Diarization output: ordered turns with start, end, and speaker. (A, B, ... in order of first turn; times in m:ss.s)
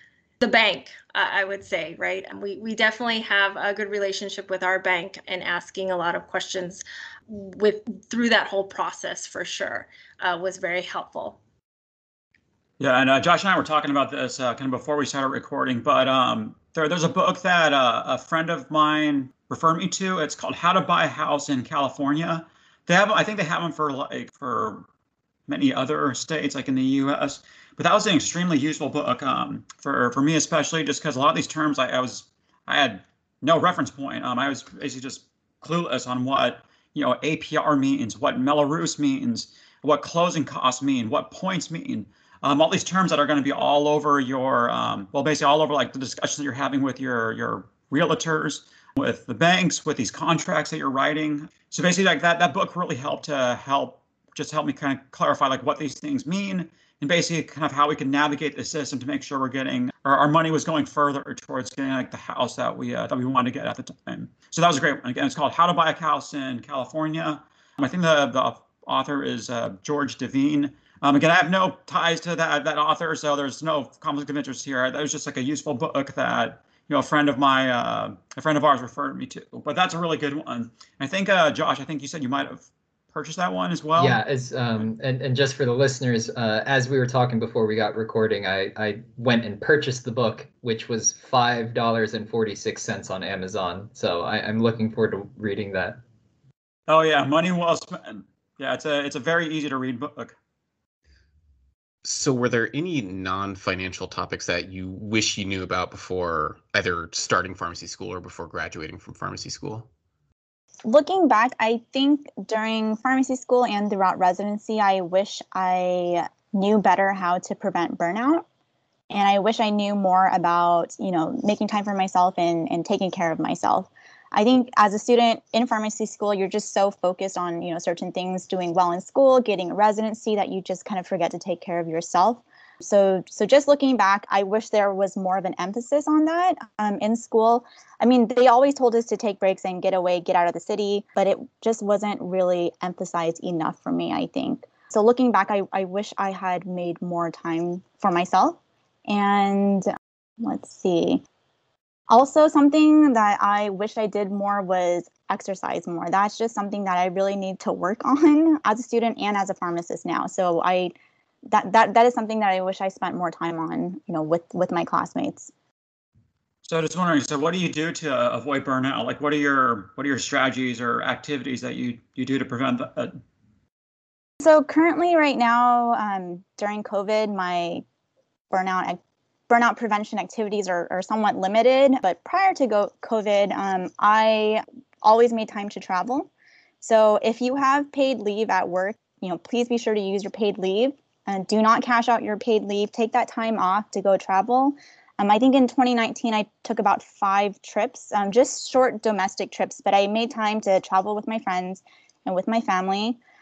0:00.4-0:11.4 A
0:12.8-0:24.9 B
0:25.5-1:24.2 B
1:24.0-1:36.0 C
1:36.9-1:40.3 B
1:42.0-1:49.9 D
1:50.8-1:58.4 E
1:59.1-2:29.9 E
2:30.4-2:31.2 E
2:32.1-2:40.9 E
2:41.5-2:45.5 E
2:46.6-2:53.1 B
2:54.4-2:57.8 E
2:58.5-3:06.3 E
3:06.8-3:23.2 E